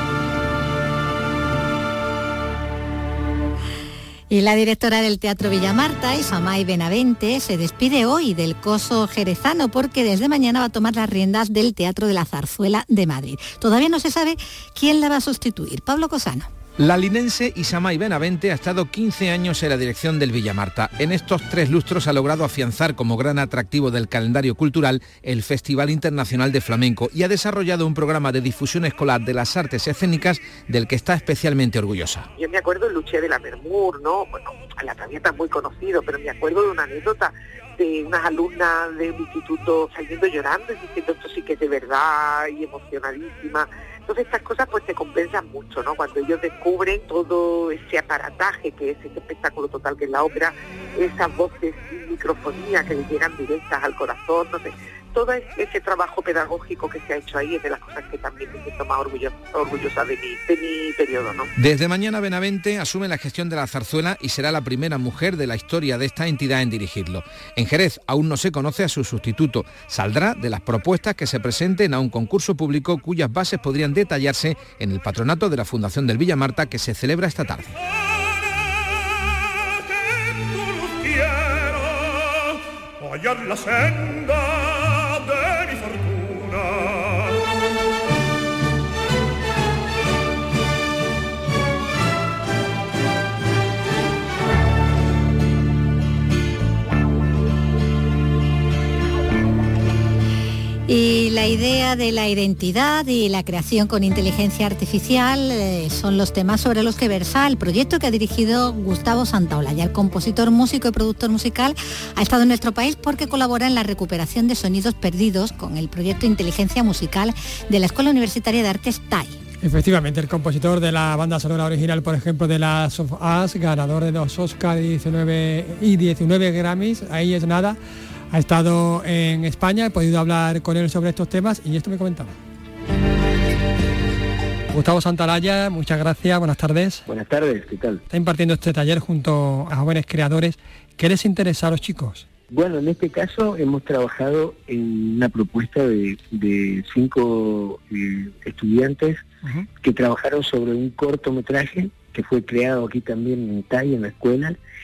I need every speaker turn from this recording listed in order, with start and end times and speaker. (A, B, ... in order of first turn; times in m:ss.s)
0:04.3-0:16.5 A
0:16.8-0:32.3 B
0:32.4-1:01.5 C
1:01.6-1:17.8 B
1:40.9-1:59.4 A
1:59.6-2:07.8 D
2:08.3-2:12.3 D
2:14.7-2:17.0 D
2:17.0-2:18.0 E
2:18.1-2:22.2 D
2:22.5-2:29.2 E
2:29.8-2:34.6 E